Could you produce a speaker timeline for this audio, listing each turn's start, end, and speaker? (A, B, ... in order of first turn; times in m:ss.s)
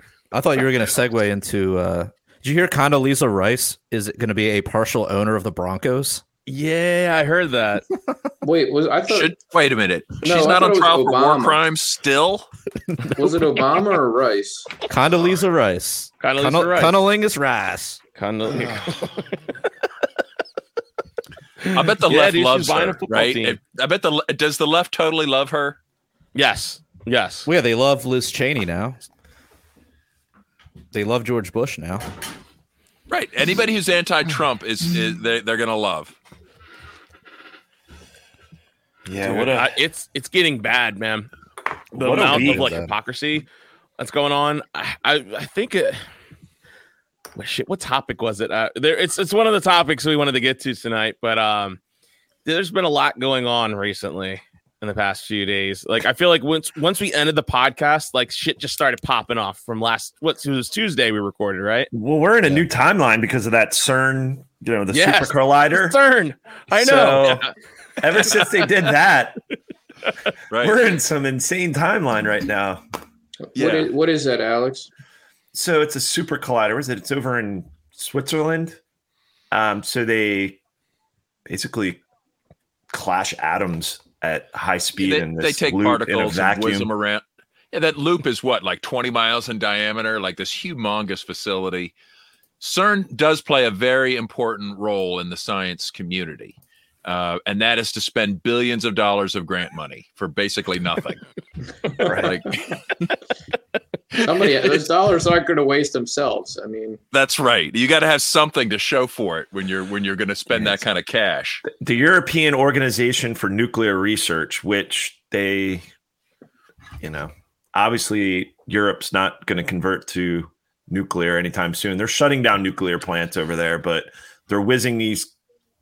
0:00.3-0:06.2 A
0:06.4-0:07.8 B
0:08.4-0:09.3 C
0:09.1-0:12.5 D
0:10.2-0:11.6 C
0:13.2-0:14.7 C
0:14.9-0:18.0 A
0:16.2-0:17.0 B
0:18.2-0:19.2 B
0:21.6-0:23.6 B
0:21.7-0:25.8 D
0:26.3-0:27.5 B
0:27.4-0:29.0 A
0:30.9-0:32.0 A
0:33.1-0:36.1 D
0:39.0-0:39.8 E
0:39.2-0:41.3 B
0:41.9-0:42.7 E
0:41.9-0:43.5 B
0:42.3-0:42.9 A
0:44.0-0:46.0 B
0:47.3-0:51.8 B
0:52.4-1:01.9 B
1:01.9-1:06.0 E
1:04.9-1:07.5 B
1:06.7-1:07.5 E
1:08.0-1:09.4 E
1:10.5-1:10.8 D
1:10.5-1:12.8 E
1:13.5-1:14.9 C
1:13.6-1:13.8 D
1:15.5-1:18.8 E
1:19.5-1:20.6 E
1:21.5-1:22.0 E
1:22.9-1:26.9 E
1:25.0-1:31.9 D
1:32.6-1:41.2 D
1:42.0-1:42.6 D
1:42.0-1:42.4 E
1:44.2-1:47.0 C
1:47.1-1:51.6 D
1:50.5-1:50.8 E
1:51.7-1:55.8 E
1:57.0-2:05.3 E